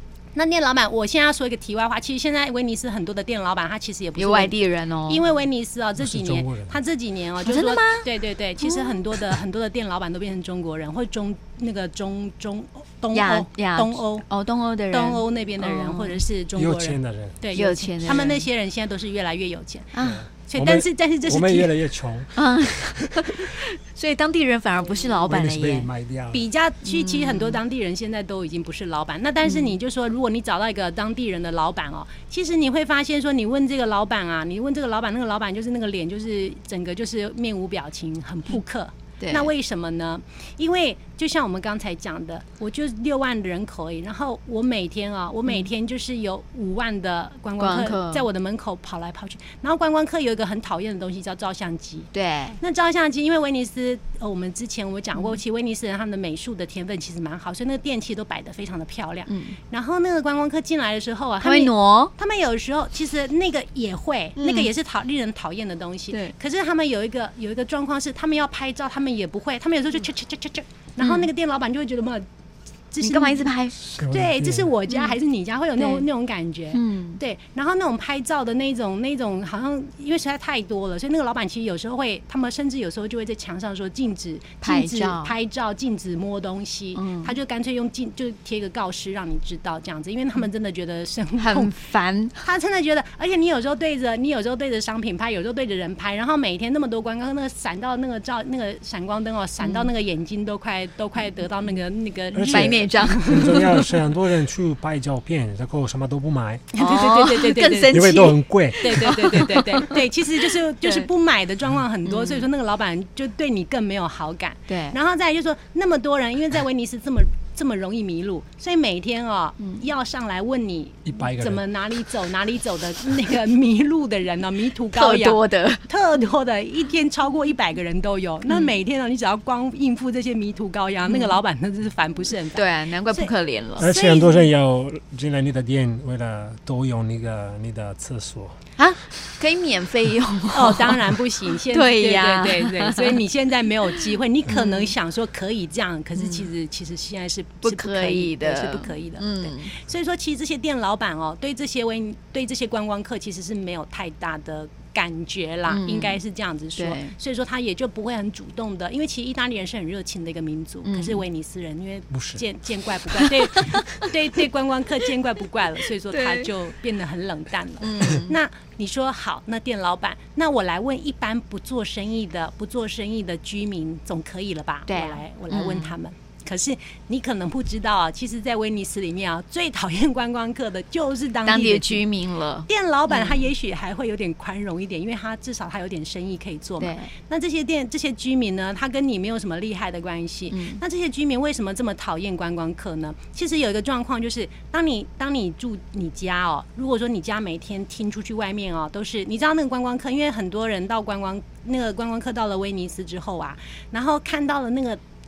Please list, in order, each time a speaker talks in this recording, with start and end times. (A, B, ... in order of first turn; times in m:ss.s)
0:00.4-0:04.6 A
0:04.2-0:05.2 B
0:05.1-0:14.2 A
0:06.0-0:06.8 C
0:07.4-0:08.1 B
0:08.6-0:09.0 B
0:13.1-0:16.2 B
0:14.9-0:21.7 A
0:16.6-0:17.4 C
0:17.5-0:18.5 B
0:19.9-0:20.2 B
0:20.0-0:23.2 C
0:22.4-0:25.9 B
0:25.3-0:26.5 C
0:26.3-1:12.3 A
0:26.8-0:27.6 B
0:29.4-0:29.8 B
0:39.2-0:39.5 B
0:47.6-0:48.3 B
0:52.1-0:52.6 B
0:59.3-0:59.6 B
1:01.4-1:02.1 B
1:04.4-1:04.7 B
1:11.0-1:11.3 B
1:12.9-1:31.8 A
1:13.0-1:13.8 B
1:13.9-1:14.7 C
1:14.9-1:15.2 B
1:15.8-1:16.0 B
1:16.7-1:17.2 B
1:24.6-1:25.3 B
1:27.0-1:27.4 B
1:31.4-1:32.5 B
1:32.4-1:43.7 A
1:39.6-1:39.9 B
1:42.3-1:46.7 C
1:42.5-1:43.8 B
1:46.7-1:48.3 A
1:46.8-1:51.1 B
1:47.9-1:49.5 C
1:48.8-2:14.5 A
1:52.0-1:52.5 B
1:54.7-1:55.0 B
2:01.1-2:01.6 C
2:04.9-2:05.8 B
2:11.1-2:11.4 B
2:12.6-2:13.9 B
2:13.8-2:18.6 C
2:18.8-2:23.2 B
2:20.5-3:02.1 A
2:23.9-2:24.9 B
2:26.2-2:26.5 B
2:27.6-2:29.8 B
2:35.7-2:36.2 B
2:36.8-2:37.1 B
2:40.8-2:41.2 B
2:42.1-2:42.4 C
2:43.2-2:44.1 B
2:46.1-2:46.5 B
2:47.8-2:48.4 B
2:54.9-2:56.0 B
3:01.4-3:03.5 B
3:02.7-3:25.0 A
3:06.8-3:07.1 B
3:10.5-3:10.8 B